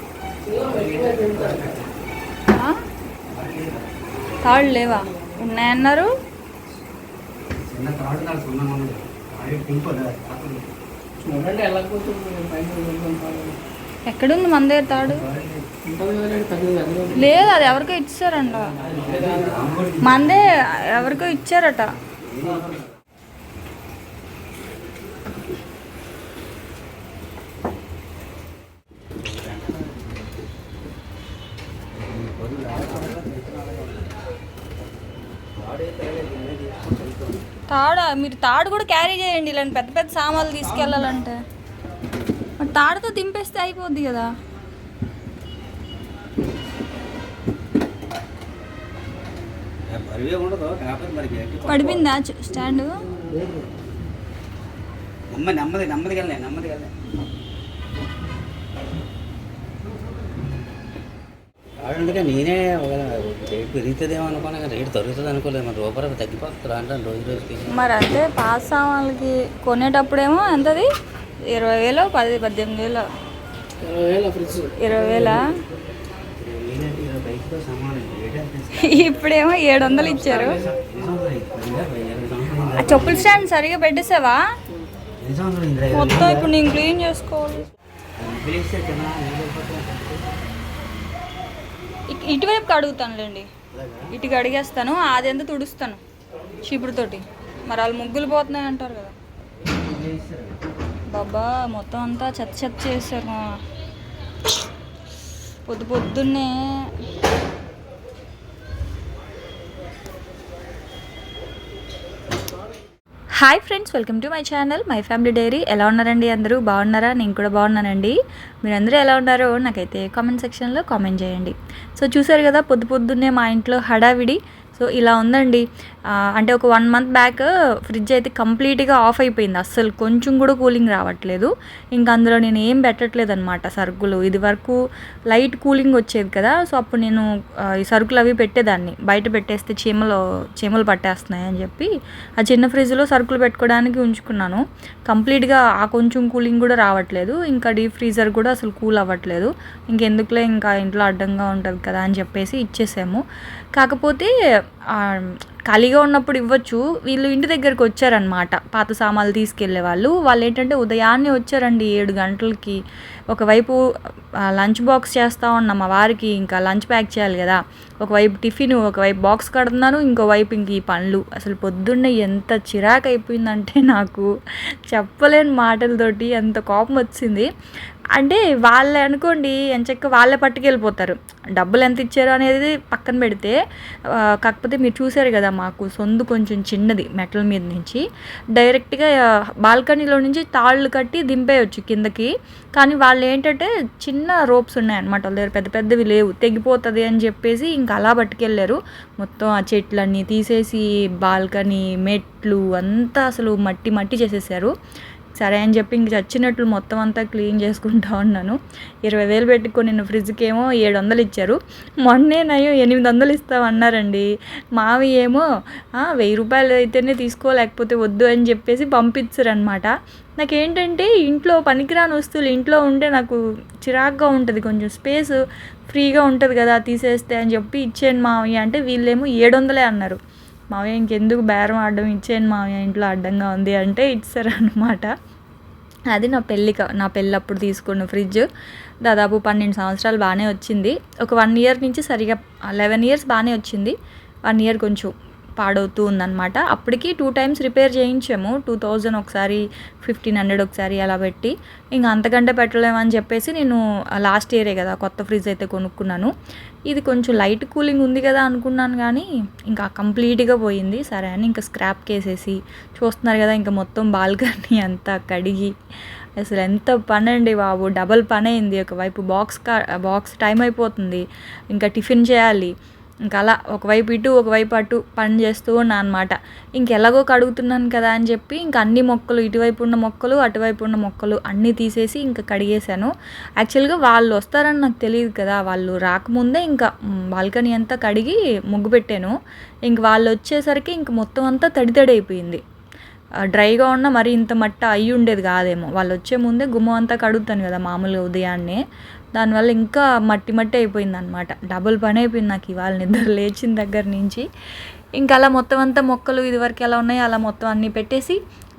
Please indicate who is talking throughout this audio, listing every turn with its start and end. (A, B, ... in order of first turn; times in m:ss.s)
0:00.5-0:01.9 A
0:00.6-0:01.5 B
0:03.3-0:03.9 A
0:04.4-0:06.1 C
0:07.6-0:10.7 A
0:11.2-0:13.6 B
0:14.1-0:15.2 C
0:15.1-0:15.6 A
0:15.8-0:17.2 B
0:17.2-0:18.7 C
0:18.8-0:20.4 A
0:19.1-0:19.5 B
0:20.0-0:21.9 C
0:22.2-0:22.7 A
0:29.2-0:29.9 A
0:32.0-0:34.1 A
0:35.6-0:37.4 A
0:37.7-0:41.4 C
0:42.6-0:44.3 C
0:49.9-0:52.0 A
0:51.7-0:52.9 C
0:55.3-0:56.9 A
1:01.8-1:07.7 A
1:07.7-1:10.9 C
1:11.5-1:13.1 C
1:13.8-1:14.8 B
1:14.8-1:15.5 C
1:16.4-1:19.2 A
1:18.8-1:20.6 C
1:20.0-1:23.4 A
1:22.8-1:24.5 C
1:25.2-1:26.5 A
1:25.9-1:27.6 C
1:28.2-1:30.2 A
1:32.1-1:33.5 C
1:34.1-1:36.0 C
1:36.6-1:39.1 C
1:39.9-1:40.4 A
1:41.1-1:43.6 C
1:45.7-1:46.9 C
1:53.4-2:14.8 C
2:15.3-2:33.2 C
2:33.8-2:34.3 C
2:35.0-2:42.8 C
2:43.3-2:43.8 C
2:44.5-2:54.3 C
2:54.9-2:57.5 C
2:58.2-3:03.6 C
3:04.2-3:08.0 C
3:08.6-3:09.1 C
3:09.6-3:24.7 C
3:25.4-3:35.4 C
3:36.0-3:45.4 C
3:45.9-3:50.2 C
3:50.7-3:55.1 C
3:56.1-3:58.5 C
3:59.0-4:04.0 C
4:04.5-4:16.3 C
4:16.9-4:25.7 C
4:26.4-4:32.7 C
4:33.3-4:49.4 C
4:49.9-4:52.6 C
4:53.5-4:58.8 C
4:59.4-5:04.4 C
5:05.2-5:08.4 C